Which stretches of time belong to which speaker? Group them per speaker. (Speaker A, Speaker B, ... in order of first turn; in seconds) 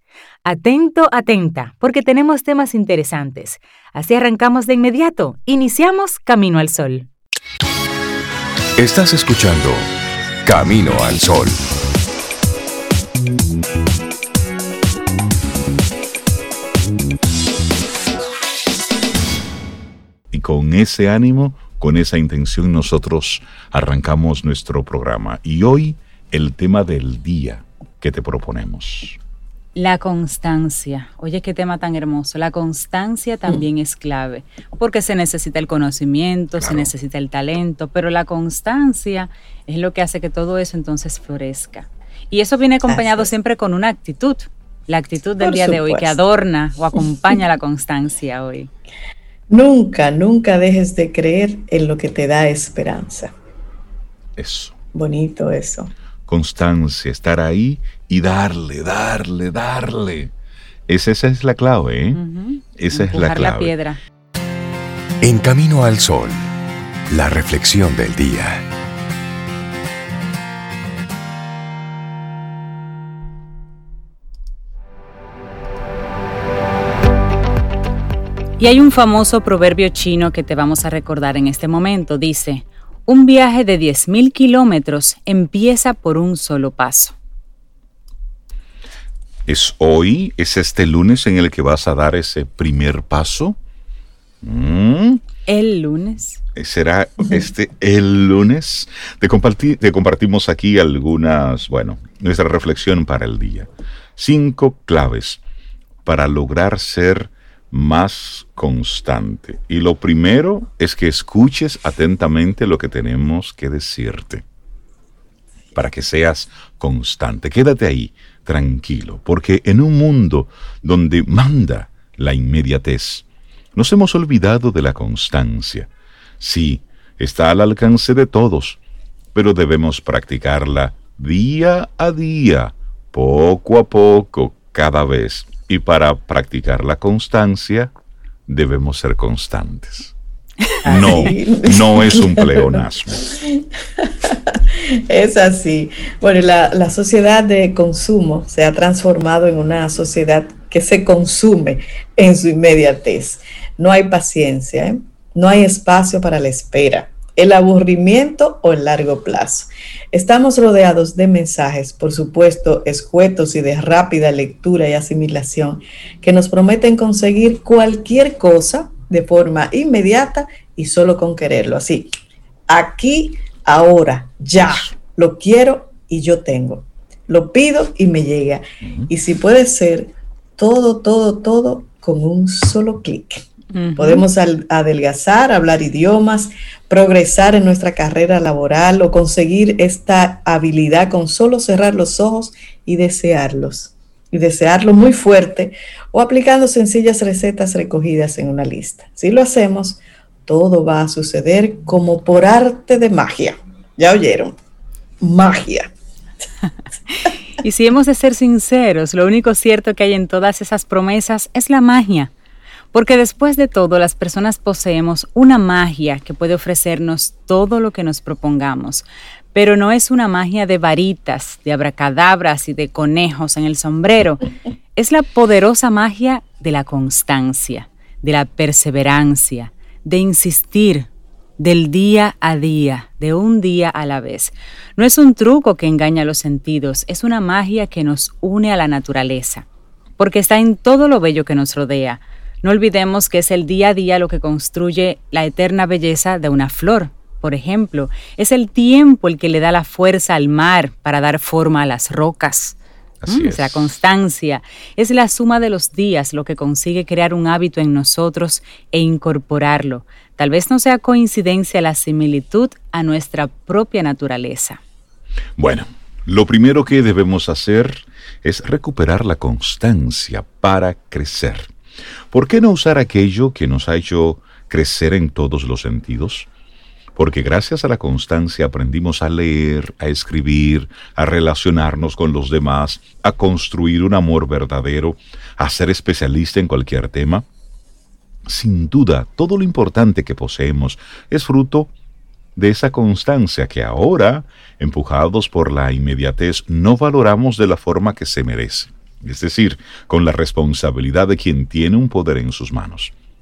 Speaker A: 0.4-7.1, 29.7-48.7, 62.1-64.0, 78.6-87.1, 95.5-96.4, 183.7-184.2, 207.6-212.3, 212.9-239.7, 240.2-252.8, 253.3-264.8
Speaker B: 8.8-9.9, 10.4-11.6, 65.2-66.5, 67.1-68.7
Speaker C: 20.3-29.2, 36.6-36.9, 54.4-54.8, 56.3-60.3, 60.9-62.2, 62.8-63.7, 89.5-93.6, 94.4-95.2, 96.5-105.4, 106.0-114.4, 115.7-128.8, 129.3-137.9, 138.5-140.1, 140.8-143.2, 178.8-179.1, 253.2-253.9, 265.6-271.7, 272.3-276.5, 277.1-287.4, 288.5-291.9, 292.6-303.1
Speaker D: 42.9-43.3, 45.4-46.2, 49.5-53.3, 54.9-55.9, 140.8-172.1, 172.7-183.4, 183.9-204.5, 205.2-205.9